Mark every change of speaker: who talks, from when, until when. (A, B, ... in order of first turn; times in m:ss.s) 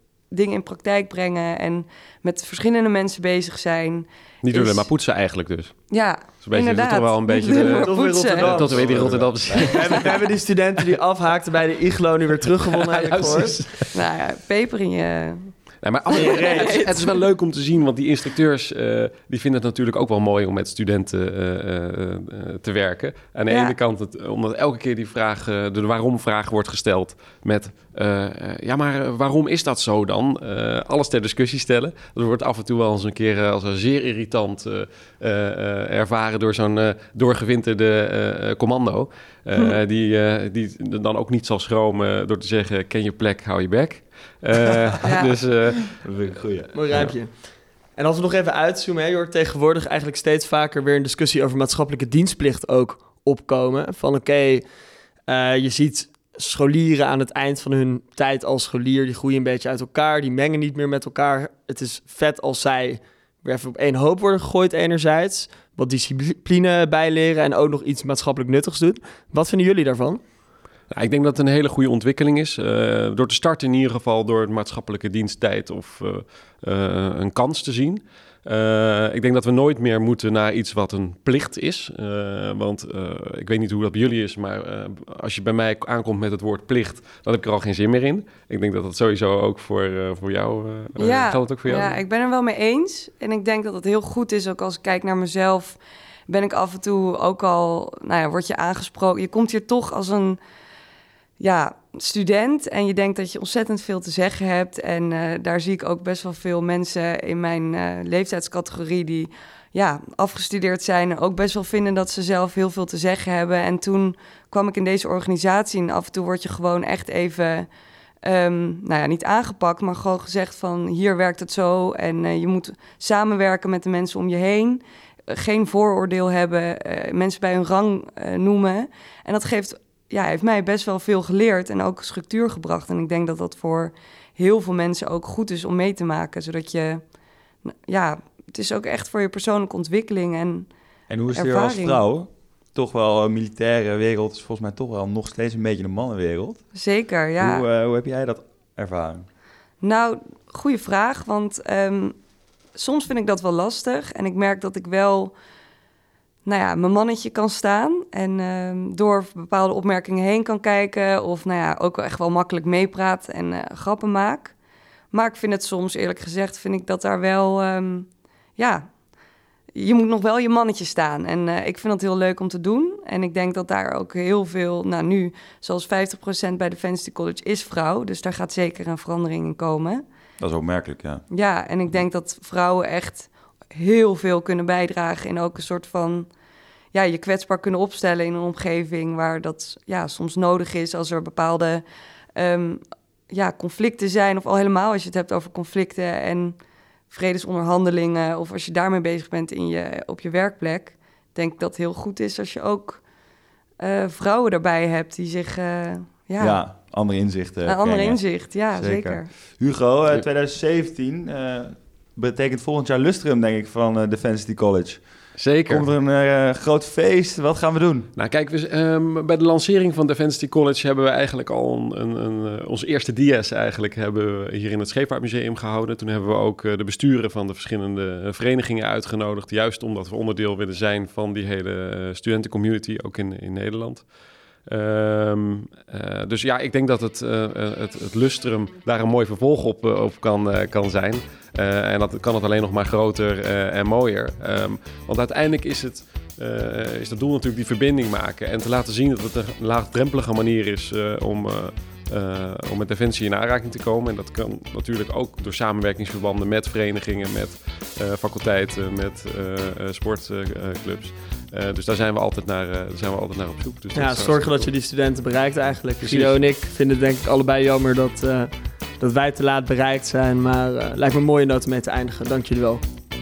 0:00.3-0:04.9 A
0:04.4-0:10.2 B
0:05.9-0:08.7 A
0:07.4-0:13.8 C
0:08.6-0:10.1 D
0:12.7-0:14.0 B
0:13.9-0:15.5 A
0:15.8-0:46.1 B
0:16.1-0:17.2 A
0:23.5-0:23.8 A
0:45.0-0:45.4 A
0:46.0-0:47.1 D
0:46.7-1:10.2 C
0:46.9-0:47.2 B
1:10.9-1:32.0 B
1:31.0-1:40.4 A
1:41.4-1:57.7 A
1:58.2-2:17.0 A
2:17.6-2:20.7 A
2:21.1-2:26.6 D
2:21.3-2:22.0 A
2:26.7-2:27.6 A
2:27.4-2:29.2 D
2:29.8-2:32.2 A
2:32.7-2:35.3 A
2:36.4-2:44.6 A
2:45.1-2:48.9 A
2:49.8-3:00.0 A
3:00.4-3:01.2 D
3:01.3-3:06.3 A
3:06.9-3:11.8 A
3:12.4-3:16.6 A
3:17.1-3:23.0 A
3:23.8-3:26.6 A
3:26.4-3:35.0 D
3:27.6-3:29.3 A
3:35.4-3:35.9 B
3:35.7-3:38.1 D
3:38.1-3:54.1 B
3:54.6-4:24.7 B
4:23.9-4:32.8 C
4:26.0-4:26.4 B